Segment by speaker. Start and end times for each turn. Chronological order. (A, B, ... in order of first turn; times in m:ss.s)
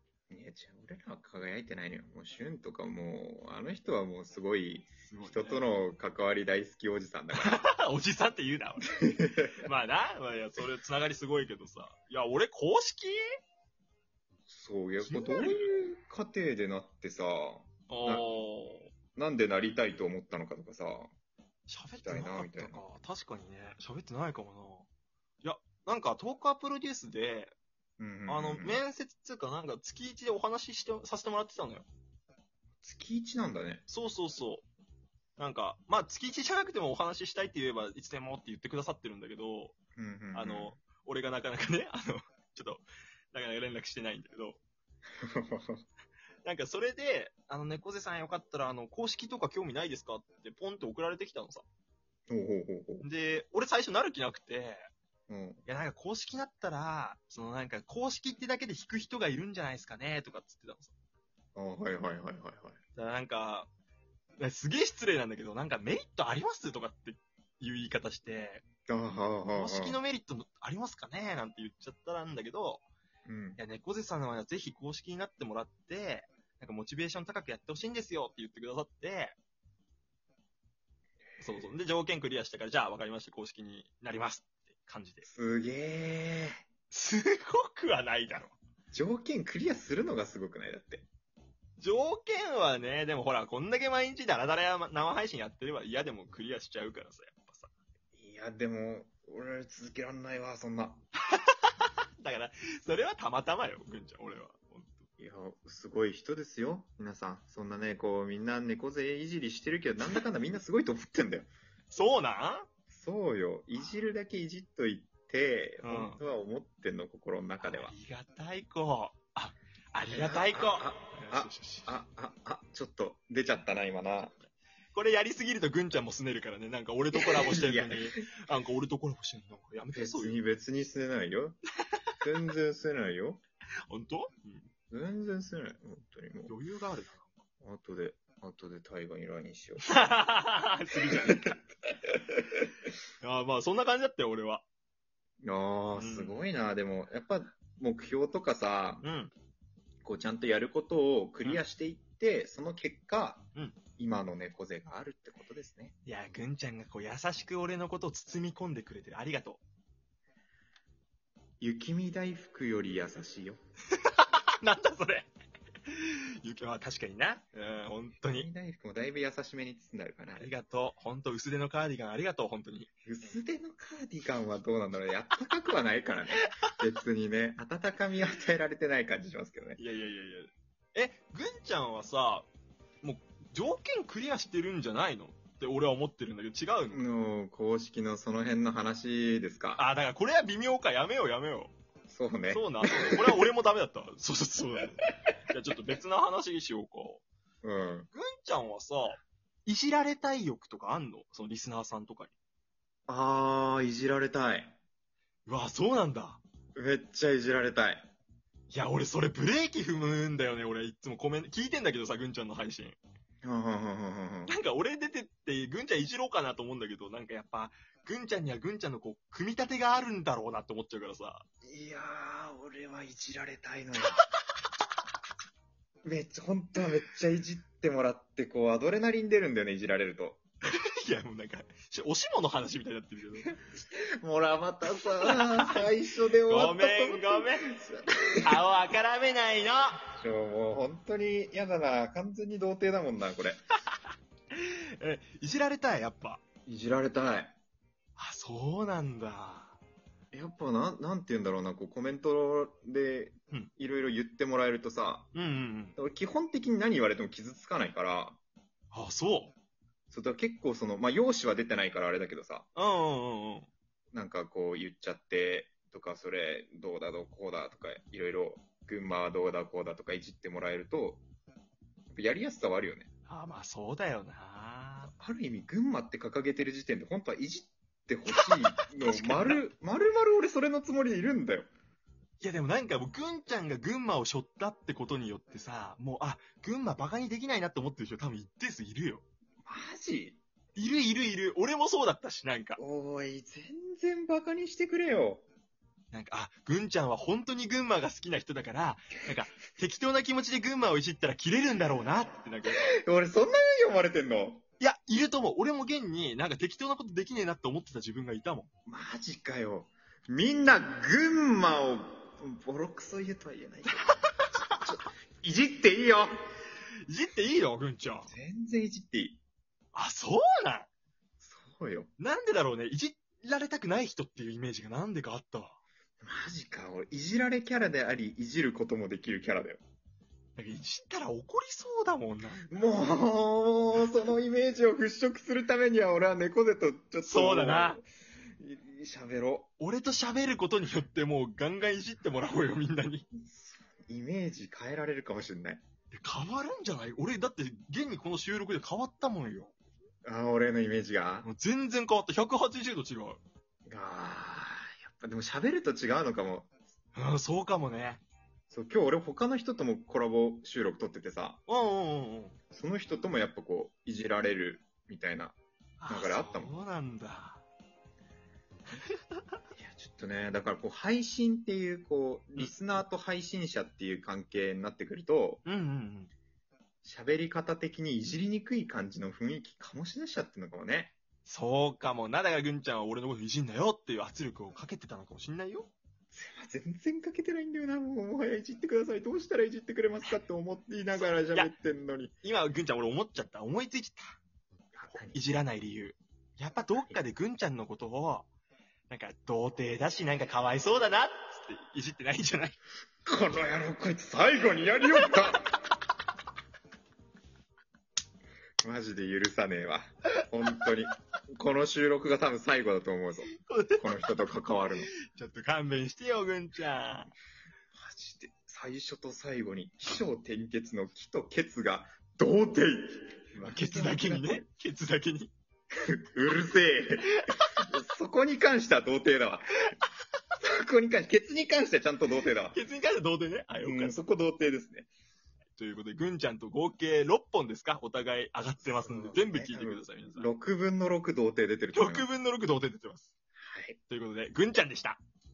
0:00.3-0:07.6 A
0:05.1-0:05.6 B
0:07.4-0:13.2 B
0:08.9-0:09.6 A
0:14.5-0:18.2 A
0:15.0-0:15.7 B
0:17.9-0:18.9 B
0:19.2-0:21.1 A
0:21.7-0:24.9 B
0:22.0-0:22.8 A
0:25.4-0:27.5 B
0:28.0-0:28.8 A
0:28.3-0:31.9 B
0:32.8-0:33.8 A
0:33.9-0:34.6 B
0:35.4-0:39.7 B
0:40.0-0:40.8 A
0:40.3-0:44.6 B
0:45.2-0:45.8 A
0:46.4-0:51.6 B
0:52.3-0:53.0 A
0:53.0-0:54.8 B
0:55.3-0:55.6 A
0:55.6-1:00.9 B
1:01.5-1:02.8 A
1:03.0-1:03.7 B
1:04.4-1:08.6 B
1:08.9-1:10.0 A
1:09.5-1:12.8 B
1:13.2-1:13.6 A
1:13.6-1:19.4 B
1:21.4-1:25.3 B
1:25.2-1:26.6 A
1:26.9-1:28.5 B
1:28.9-1:31.0 A
1:31.8-1:37.7 B
1:38.1-1:41.0 A
1:41.3-1:45.1 B
1:45.2-1:51.5 A
1:51.9-1:52.7 B
1:52.9-1:57.9 A
1:55.8-1:56.2 B
1:57.6-2:01.9 B
2:00.1-2:04.4 A
2:04.9-2:10.4 B
2:07.1-2:08.2 A
2:09.9-2:11.6 A
2:12.2-2:13.4 A
2:13.9-2:14.7 B
2:14.9-2:16.6 A
2:16.5-2:17.4 B
2:17.6-2:20.2 A
2:19.8-2:21.6 B
2:21.0-2:22.6 A
2:23.2-2:24.6 B
2:25.4-2:29.0 A
2:25.9-2:26.4 B
2:29.0-2:29.3 B
2:30.0-2:35.9 A
2:36.0-2:39.6 B
2:41.6-2:43.6 A
2:43.9-2:45.3 B
2:45.9-2:48.5 B
2:48.2-2:50.5 A
2:50.4-2:52.9 B
2:53.0-2:59.8 A
2:59.8-3:02.5 B
3:03.0-3:07.0 B
3:06.9-3:09.8 A
3:09.8-3:11.7 B
3:12.1-3:13.5 A
3:12.5-3:17.2 B
3:17.6-3:18.1 A
3:18.1-3:22.3 B
3:23.1-3:24.8 A
3:25.4-3:26.4 B
3:26.7-3:28.1 A
3:28.7-3:33.0 B
3:33.4-3:34.5 A
3:34.5-3:41.4 B
3:41.6-3:44.2 A
3:46.0-3:50.4 A
3:50.7-3:53.6 B
3:53.4-3:58.6 A
3:55.2-3:55.9 B
3:56.5-3:57.7 B
3:58.4-4:00.0 B
4:00.1-4:03.6 A
4:04.5-4:06.4 B
4:06.6-4:07.6 A
4:08.2-4:09.8 B
4:10.3-4:15.3 A
4:15.3-4:16.0 B
4:16.0-4:18.4 A
4:18.9-4:19.5 B
4:20.1-4:22.7 A
4:22.7-4:23.7 B
4:24.1-4:31.2 A
4:32.1-4:33.1 A
4:33.2-4:35.1 B
4:35.0-4:41.7 A
4:38.3-4:39.6 B
4:42.4-4:49.2 B
4:49.6-4:50.4 A
4:50.8-4:52.8 B
4:52.8-4:55.4 A
4:56.1-5:02.9 B
5:02.7-5:04.6 A
5:04.8-5:08.7 B
5:08.9-5:16.3 A
5:14.3-5:14.6 B
5:17.1-5:18.3 B
5:18.3-5:19.4 A
5:19.9-5:20.9 B
5:21.4-5:22.1 A
5:22.2-5:25.8 B
5:26.2-5:29.8 A
5:30.6-5:32.7 B
5:32.7-5:38.0 A
5:37.2-5:38.0 B
5:38.6-5:39.7 A
5:39.8-5:43.2 B
5:43.4-5:45.8 A
5:46.1-5:49.7 B
5:50.2-5:51.5 A
5:51.4-5:53.4 B
5:53.9-5:56.7 A
5:57.1-5:58.2 B
5:58.7-6:01.6 A
6:01.7-6:02.6 B
6:02.7-6:05.6 A
6:06.0-6:07.6 B
6:06.1-6:06.7 A
6:09.7-6:15.6 A
6:15.6-6:16.3 B
6:17.0-6:21.1 A
6:21.4-6:25.9 B
6:26.3-6:32.3 A
6:31.1-6:31.7 B
6:32.4-6:34.4 B
6:34.9-6:35.4 A
6:35.1-6:38.5 B
6:39.1-6:42.8 B
6:43.2-6:45.7 A
6:48.8-6:55.1 A
6:53.5-6:54.1 B
6:55.2-6:57.3 B
6:57.9-7:04.6 A
7:03.6-7:05.5 B
7:05.9-7:09.8 A
7:10.6-7:12.8 A
7:12.7-7:14.2 B
7:13.8-7:15.1 A
7:15.8-7:20.5 B
7:18.8-7:22.3 A
7:21.9-7:23.3 B
7:23.6-7:24.0 A
7:24.1-7:25.2 B